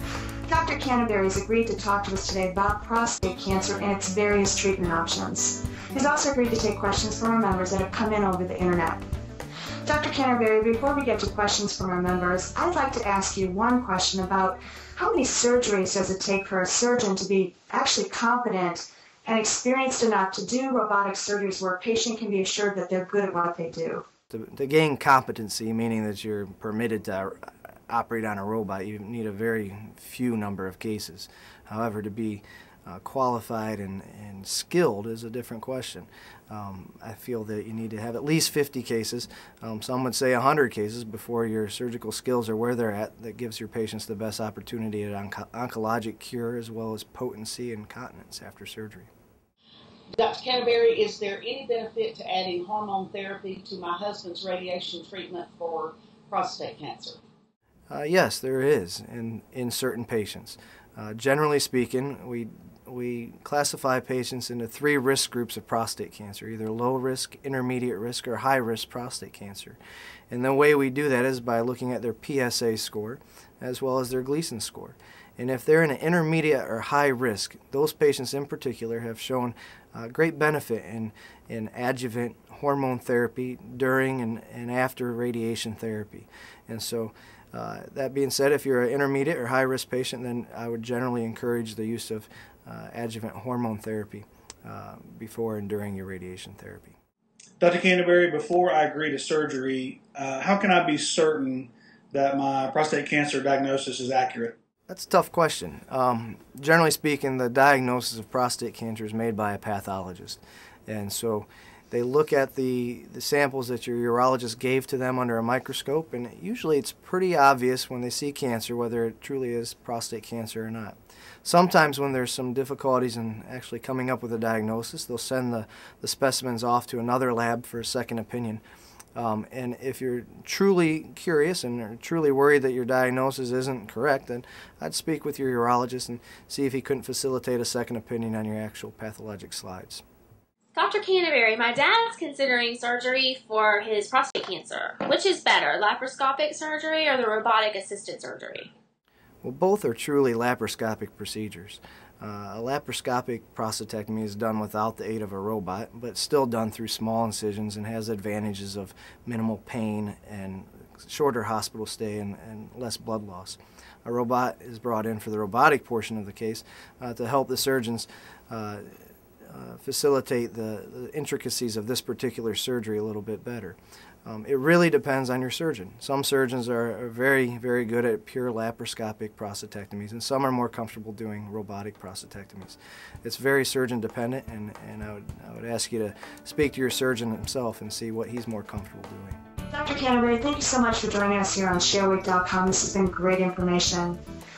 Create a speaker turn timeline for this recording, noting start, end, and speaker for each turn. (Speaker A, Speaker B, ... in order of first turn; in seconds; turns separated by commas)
Speaker A: 0.5-9.0, Speaker A: 9.9-24.0, Speaker B: 24.3-49.1, Speaker C: 50.1-57.2, Speaker B: 57.9-69.8, Speaker B: 70.3-97.0, Speaker D: 97.6-104.6, Speaker B: 104.9-128.6, Speaker B: 129.2-140.0, Speaker E: 140.7-148.7, Speaker B: 149.4-189.4, Speaker A: 189.7-194.2